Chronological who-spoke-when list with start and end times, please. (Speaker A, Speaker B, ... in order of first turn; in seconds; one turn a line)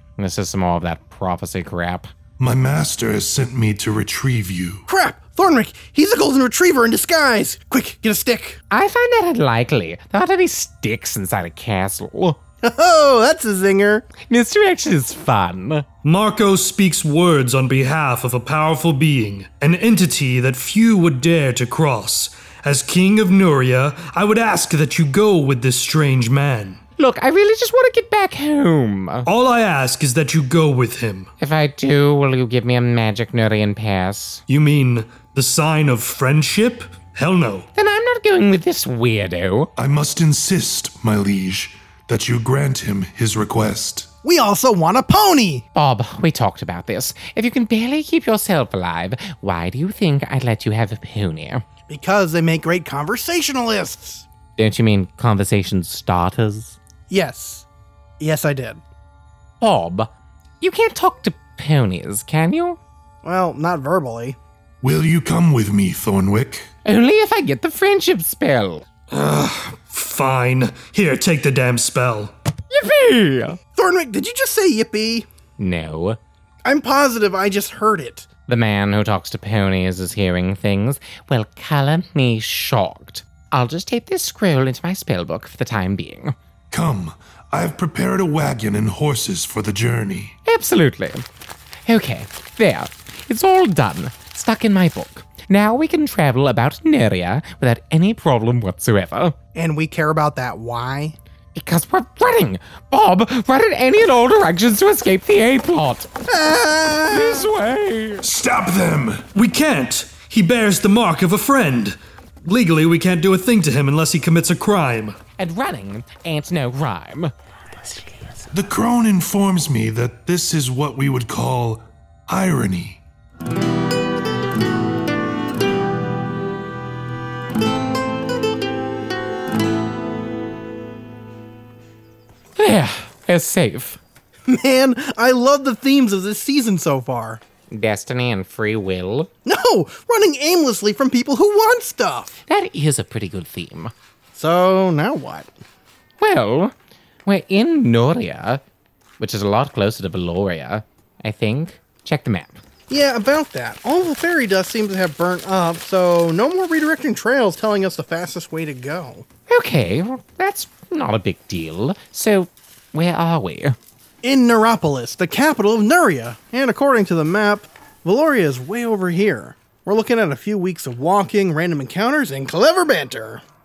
Speaker A: 0.2-2.1
Speaker B: 2.4-4.9
Speaker C: 4.9-8.6
Speaker A: 8.7-12.4
Speaker C: 12.6-14.1
Speaker A: 14.2-15.8
Speaker D: 16.0-26.8
Speaker A: 27.0-29.3
Speaker D: 29.3-31.3
Speaker A: 31.4-34.4
Speaker D: 34.5-37.7
Speaker A: 37.8-39.7
Speaker B: 39.8-44.1
Speaker C: 44.2-45.6
Speaker A: 45.8-51.6
Speaker C: 51.9-54.2
Speaker A: 54.6-56.8
Speaker C: 57.1-57.6
Speaker C: 58.2-58.8
Speaker A: 59.6-62.8
Speaker C: 63.2-64.4
Speaker B: 64.8-66.7
Speaker A: 66.8-68.8
Speaker D: 69.1-72.3
Speaker A: 72.7-73.6
Speaker C: 73.8-75.3
Speaker A: 75.6-76.2
Speaker C: 76.6-78.3
Speaker A: 78.5-86.3
Speaker B: 86.7-90.4
Speaker A: 90.5-91.2
Speaker A: 91.8-99.3
Speaker C: 99.5-101.2
Speaker A: 101.5-106.1
Speaker C: 106.3-107.5
Speaker A: 107.1-108.2
Speaker B: 108.2-109.2
Speaker D: 109.3-115.2
Speaker A: 115.4-117.3
Speaker B: 118.5-123.0
Speaker A: 132.6-134.0
Speaker C: 134.5-137.4
Speaker A: 137.7-139.3
Speaker C: 139.4-142.3
Speaker A: 142.5-143.9
Speaker C: 144.3-145.5
Speaker A: 146.2-146.7
Speaker A: 147.2-148.6
Speaker A: 149.2-152.6
Speaker C: 152.9-159.2
Speaker A: 159.5-163.8
Speaker C: 164.2-173.4